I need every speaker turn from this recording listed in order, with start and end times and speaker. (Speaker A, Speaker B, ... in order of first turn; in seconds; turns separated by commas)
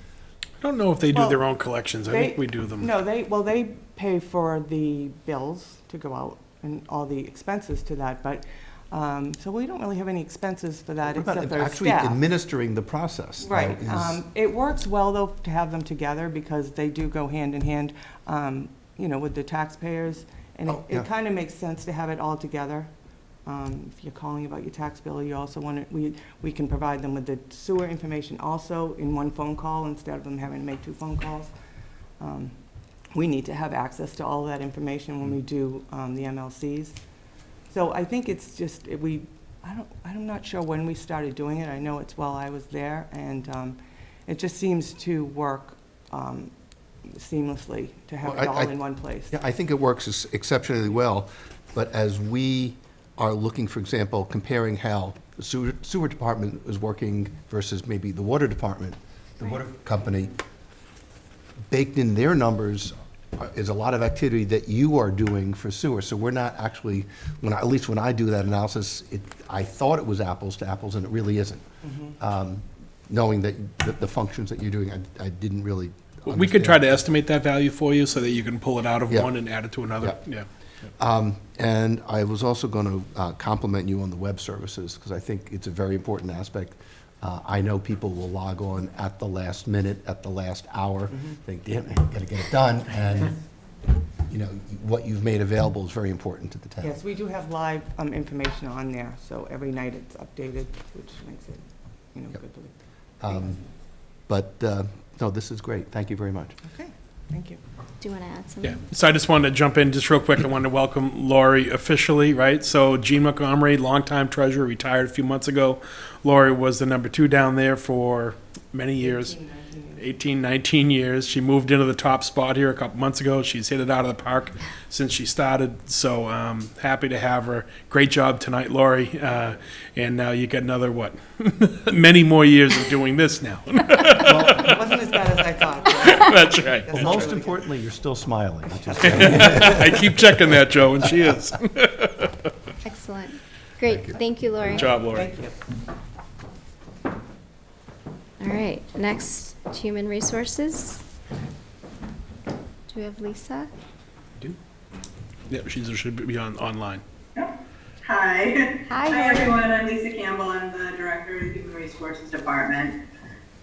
Speaker A: 0.6-2.9, Speaker B: 1.1-1.4, Speaker B: 2.0-12.2, Speaker C: 11.1-14.2, Speaker B: 13.4-22.9, Speaker C: 20.7-21.1, Speaker B: 23.4-31.5, Speaker B: 32.2-32.5, Speaker B: 33.1-37.0, Speaker B: 37.7-46.5, Speaker B: 47.0-49.3, Speaker C: 48.2-48.8, Speaker C: 49.3-60.3, Speaker C: 61.7-71.6, Speaker B: 71.8-72.1, Speaker C: 72.2-77.0, Speaker A: 76.3-80.5, Speaker C: 81.0-93.3, Speaker C: 94.3-97.0, Speaker B: 96.8-102.8, Speaker C: 103.2-103.6, Speaker B: 103.3-103.6, Speaker C: 104.3-106.5, Speaker B: 106.6-107.6, Speaker D: 108.0-108.8, Speaker A: 108.6-119.3, Speaker B: 119.0-120.1, Speaker A: 120.0-134.8, Speaker B: 134.2-137.7, Speaker C: 134.2-134.5, Speaker A: 135.9-137.1, Speaker C: 136.9-140.4, Speaker B: 138.9-139.4, Speaker A: 139.0-142.5, Speaker D: 142.8-144.9, Speaker C: 143.8-144.2, Speaker A: 144.6-145.3, Speaker B: 144.8-145.6, Speaker D: 148.4-151.0, Speaker D: 152.9-153.7, Speaker A: 155.5-157.0, Speaker E: 157.3-163.0, Speaker D: 158.9-159.6